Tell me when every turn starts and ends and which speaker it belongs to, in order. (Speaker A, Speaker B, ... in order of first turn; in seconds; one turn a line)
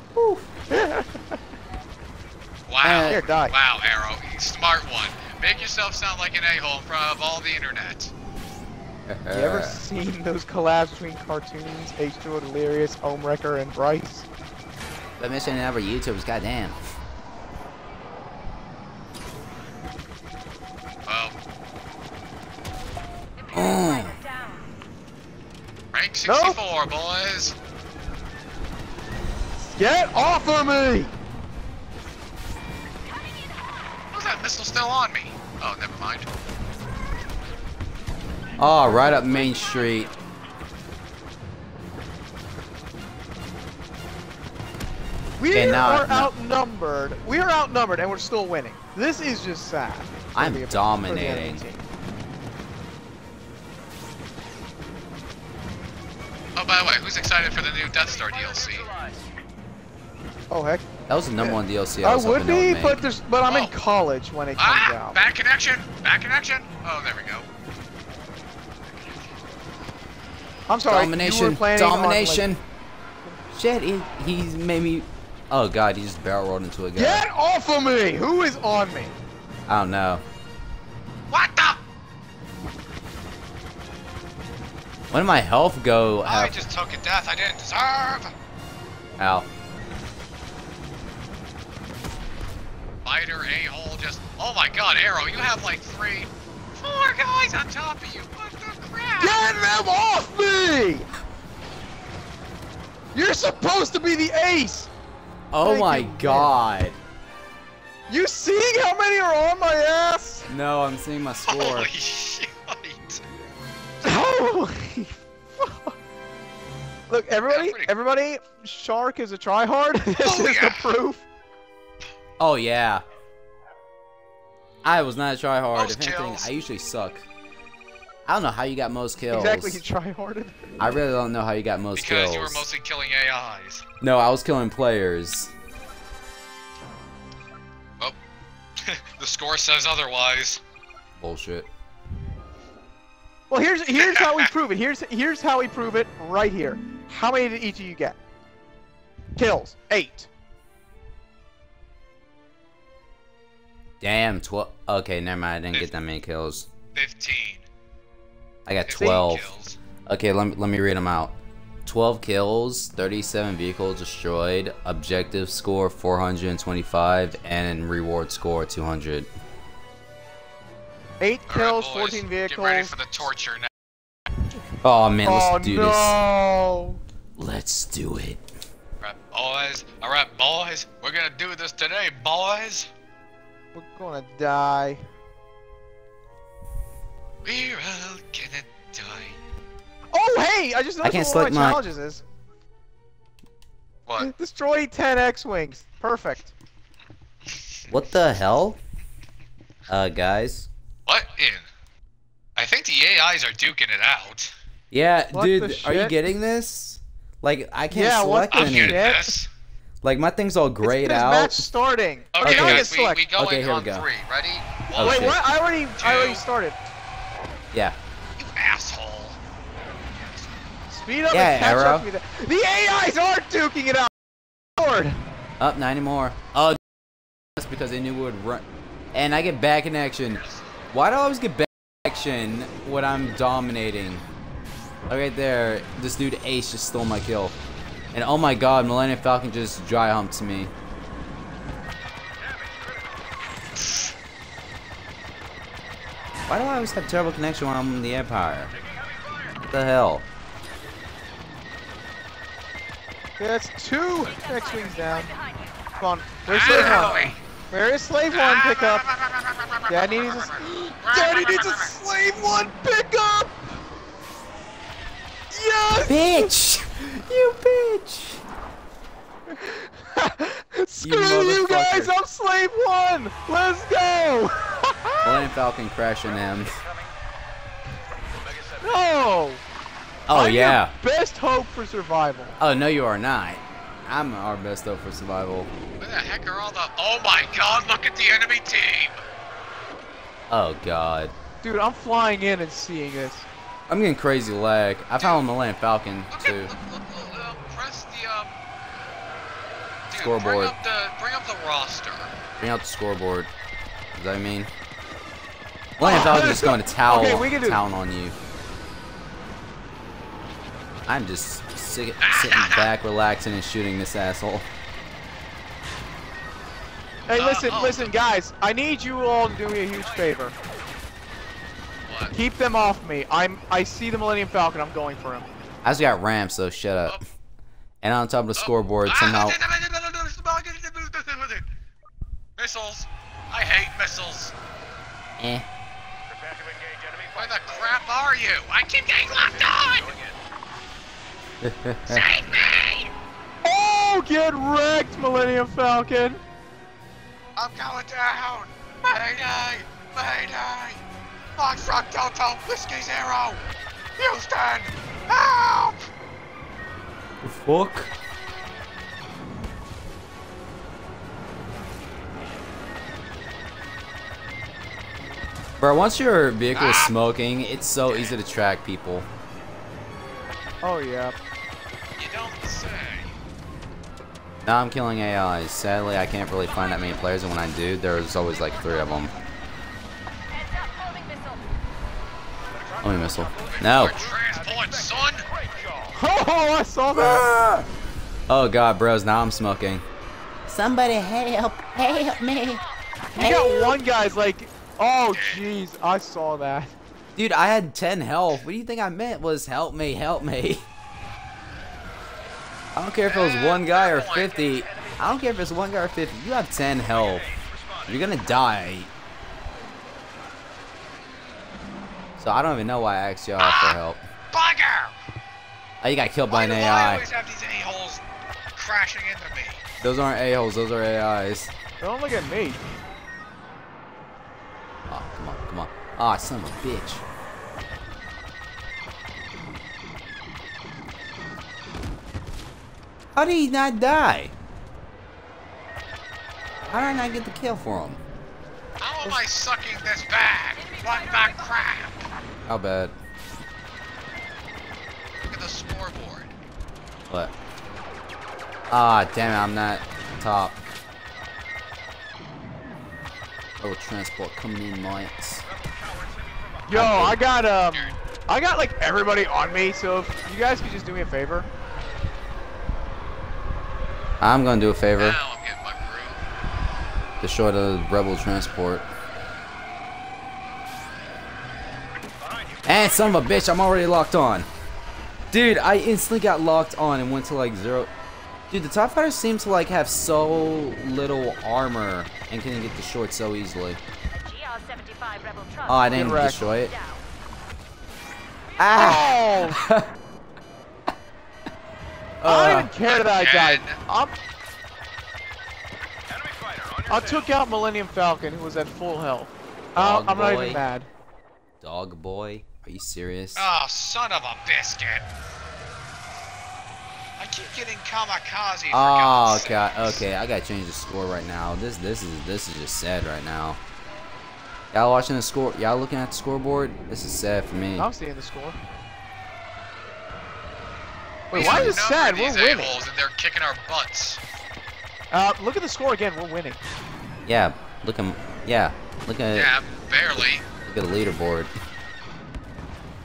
Speaker A: 0.2-0.4
Speaker B: 0.7-1.4
Speaker C: 2.7-8.1
Speaker A: 2.8-3.2
Speaker B: 3.0-3.5
Speaker A: 9.1-9.8
Speaker B: 9.3-14.3
Speaker A: 15.2-16.8
Speaker C: 21.1-21.3
Speaker D: 23.4-24.7
Speaker A: 23.5-24.2
Speaker C: 25.9-27.5
Speaker B: 26.2-26.6
Speaker B: 29.8-31.1
Speaker D: 33.0-33.8
Speaker C: 34.1-36.3
Speaker A: 38.6-40.1
Speaker B: 45.4-51.8
Speaker A: 45.5-46.3
Speaker A: 50.3-51.6
Speaker C: 56.5-58.9
Speaker E: 57.9-59.2
Speaker B: 60.5-60.8
Speaker A: 61.1-63.0
Speaker B: 61.4-65.2
Speaker C: 63.5-63.7
Speaker C: 64.6-67.5
Speaker B: 70.7-72.5
Speaker A: 70.9-72.6
Speaker A: 73.5-77.2
Speaker B: 76.9-79.2
Speaker A: 79.7-80.2
Speaker C: 81.3-81.8
Speaker A: 85.1-86.5
Speaker C: 86.2-88.3
Speaker A: 89.2-89.5
Speaker C: 93.0-99.4
Speaker B: 99.2-101.1
Speaker B: 103.1-104.9
Speaker A: 105.5-107.0
Speaker B: 105.6-106.5
Speaker B: 108.1-110.5
Speaker A: 110.5-111.9
Speaker C: 111.5-113.2
Speaker B: 114.0-115.9
Speaker B: 117.1-121.2
Speaker C: 117.5-117.9
Speaker C: 120.2-120.9
Speaker A: 122.4-123.0
Speaker A: 124.8-127.2
Speaker C: 125.7-126.5
Speaker A: 128.2-129.8
Speaker B: 129.3-130.7
Speaker A: 130.8-132.6
Speaker C: 132.0-133.8
Speaker A: 134.0-135.5
Speaker C: 138.8-140.6
Speaker A: 141.2-141.7
Speaker B: 143.5-148.2
Speaker C: 144.0-144.4
Speaker B: 149.3-150.3
Speaker A: 154.0-156.7
Speaker C: 156.9-157.7
Speaker A: 158.7-159.5
Speaker C: 158.9-159.8
Speaker A: 160.1-169.3
Speaker B: 171.2-172.9
Speaker C: 171.5-173.7
Speaker A: 174.8-176.2
Speaker B: 175.2-177.0
Speaker A: 177.4-178.4
Speaker C: 179.0-182.9
Speaker B: 183.7-185.0
Speaker C: 187.4-189.4
Speaker B: 190.1-192.2
Speaker A: 191.0-191.8
Speaker C: 194.1-194.3
Speaker B: 194.2-196.5
Speaker A: 197.9-198.8
Speaker A: 199.9-200.7
Speaker C: 201.1-201.7
Speaker C: 202.6-204.5
Speaker A: 204.9-209.0
Speaker B: 205.3-206.2
Speaker B: 207.9-209.3
Speaker C: 208.5-209.5
Speaker A: 210.0-211.6
Speaker B: 210.8-213.2
Speaker C: 212.3-215.3
Speaker A: 212.4-214.1
Speaker B: 214.9-216.8
Speaker A: 214.9-215.4
Speaker C: 216.0-216.4
Speaker C: 218.4-219.4
Speaker C: 220.1-220.5
Speaker B: 220.9-225.2
Speaker A: 221.3-222.1
Speaker A: 225.6-226.8
Speaker A: 227.6-234.2
Speaker C: 230.4-230.7
Speaker A: 235.1-237.6
Speaker A: 238.1-240.7
Speaker E: 242.4-243.2
Speaker A: 246.5-248.7
Speaker E: 248.7-249.6
Speaker A: 249.7-250.2
Speaker B: 253.4-255.3
Speaker D: 254.2-255.9
Speaker B: 256.0-259.1
Speaker C: 256.4-257.4
Speaker A: 256.6-257.3
Speaker C: 258.3-261.9
Speaker B: 259.9-263.6
Speaker B: 265.5-266.5
Speaker A: 266.0-268.4
Speaker B: 269.5-275.5
Speaker A: 271.0-272.1
Speaker A: 275.2-276.8
Speaker E: 276.5-277.1
Speaker E: 278.4-279.0
Speaker B: 278.8-279.6
Speaker A: 280.3-280.9
Speaker B: 280.3-282.6
Speaker A: 282.6-285.7
Speaker C: 286.0-289.2
Speaker A: 290.5-291.3
Speaker B: 291.6-293.5
Speaker A: 293.9-296.7
Speaker C: 296.3-298.6
Speaker C: 300.1-302.4
Speaker A: 300.1-300.7
Speaker A: 302.6-303.5
Speaker A: 304.1-304.7
Speaker A: 306.0-308.4
Speaker B: 306.0-307.8
Speaker A: 311.1-314.7
Speaker C: 312.2-312.9
Speaker C: 317.3-318.1
Speaker B: 317.3-320.5
Speaker E: 320.0-320.4
Speaker C: 322.1-322.3
Speaker B: 322.3-325.5
Speaker A: 325.8-327.2
Speaker A: 328.0-329.6
Speaker C: 328.6-331.6
Speaker C: 332.6-334.5
Speaker A: 335.4-335.6
Speaker E: 336.3-338.0
Speaker C: 337.3-340.1
Speaker E: 339.3-340.4
Speaker A: 341.6-342.2
Speaker C: 342.1-343.1
Speaker B: 343.6-346.4
Speaker C: 347.6-351.0
Speaker C: 351.6-353.6
Speaker C: 354.2-356.1
Speaker A: 357.4-358.1
Speaker A: 365.8-369.3
Speaker C: 366.7-367.1
Speaker C: 368.0-368.4
Speaker B: 370.8-371.4
Speaker C: 372.2-373.3
Speaker A: 374.6-379.3
Speaker D: 378.5-379.3
Speaker D: 380.5-381.6
Speaker E: 382.7-386.2
Speaker A: 383.0-384.3
Speaker C: 383.6-385.4
Speaker B: 386.1-387.7
Speaker A: 387.1-387.9
Speaker A: 388.5-390.0
Speaker A: 390.7-392.8
Speaker D: 392.0-392.9
Speaker A: 393.3-394.0
Speaker B: 393.4-396.9
Speaker C: 395.3-395.6
Speaker A: 397.4-400.9
Speaker A: 402.9-407.4
Speaker C: 403.2-404.8
Speaker E: 404.3-405.2
Speaker E: 407.1-408.3
Speaker A: 408.1-409.1
Speaker A: 412.4-414.2
Speaker C: 413.6-414.0
Speaker C: 414.5-415.2
Speaker A: 416.0-417.2
Speaker C: 416.5-418.2
Speaker C: 418.7-419.8
Speaker A: 420.0-421.7
Speaker B: 422.0-422.9
Speaker A: 425.1-427.2
Speaker A: 433.3-434.5
Speaker A: 436.9-438.2
Speaker C: 439.0-442.3
Speaker D: 440.8-441.7
Speaker A: 442.6-443.1
Speaker C: 445.4-446.5
Speaker A: 448.9-450.8
Speaker A: 453.8-455.6
Speaker E: 455.6-457.1
Speaker B: 456.9-461.7
Speaker A: 456.9-457.4
Speaker C: 457.9-458.2
Speaker A: 464.4-465.4
Speaker C: 465.2-466.4
Speaker A: 467.4-469.1
Speaker E: 472.4-473.3
Speaker A: 472.8-474.7
Speaker A: 475.5-478.1
Speaker A: 478.7-484.0
Speaker D: 484.3-487.2
Speaker A: 485.9-486.9
Speaker B: 486.1-486.6
Speaker A: 488.8-490.1
Speaker B: 488.9-489.8
Speaker A: 492.4-492.9
Speaker B: 492.4-494.4
Speaker C: 493.1-494.0
Speaker E: 496.3-497.5
Speaker B: 497.1-501.1
Speaker A: 499.9-500.8
Speaker A: 501.8-503.7
Speaker C: 503.6-505.2
Speaker C: 507.4-510.2
Speaker A: 508.9-513.8
Speaker A: 514.9-518.1
Speaker B: 518.0-518.8
Speaker B: 521.5-523.0
Speaker C: 521.5-524.4
Speaker A: 521.5-522.0
Speaker B: 525.3-526.8
Speaker A: 527.5-529.7
Speaker C: 529.5-530.6
Speaker A: 530.4-531.7